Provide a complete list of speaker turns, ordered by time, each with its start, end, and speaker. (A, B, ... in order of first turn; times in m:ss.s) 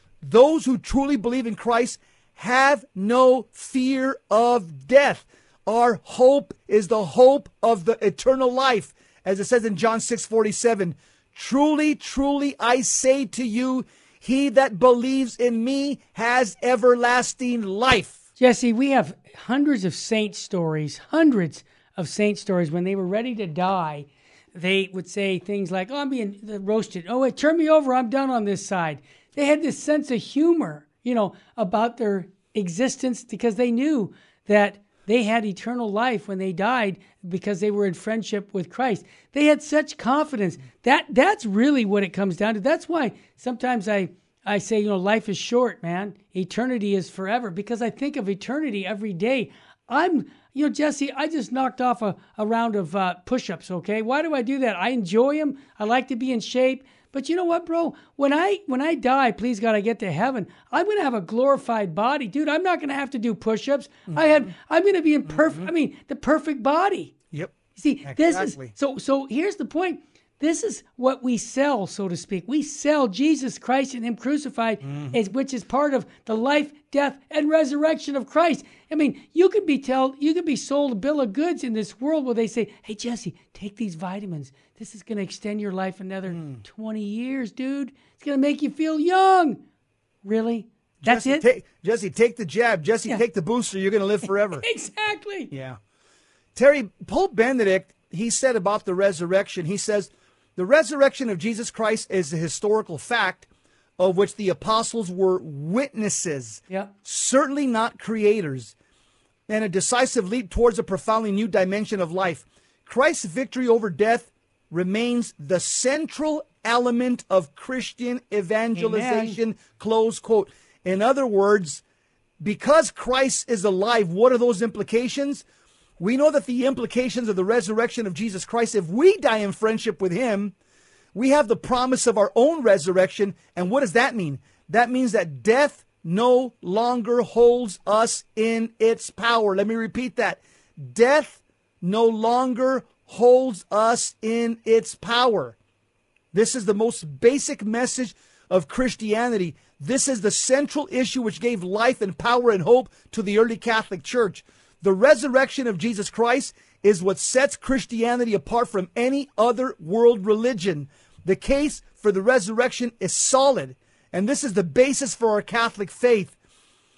0:00.2-0:18.2 A
0:18.4-1:07.2 B
1:04.1-1:04.4 A
1:05.3-1:05.7 A
1:07.3-1:08.7 A
1:07.8-1:29.6 B
1:14.8-1:15.2 A
1:26.3-1:26.6 A
1:30.2-1:31.4 B
1:31.0-1:34.6 A
1:34.5-1:35.5 B
1:35.5-1:35.8 A
1:36.6-1:43.5 A
1:44.0-1:48.7 A
1:49.5-2:01.8 A
1:58.8-1:59.4 B
2:02.4-2:05.4 A
2:06.0-2:10.6 A
2:11.2-2:25.6 A
2:26.3-2:46.4 A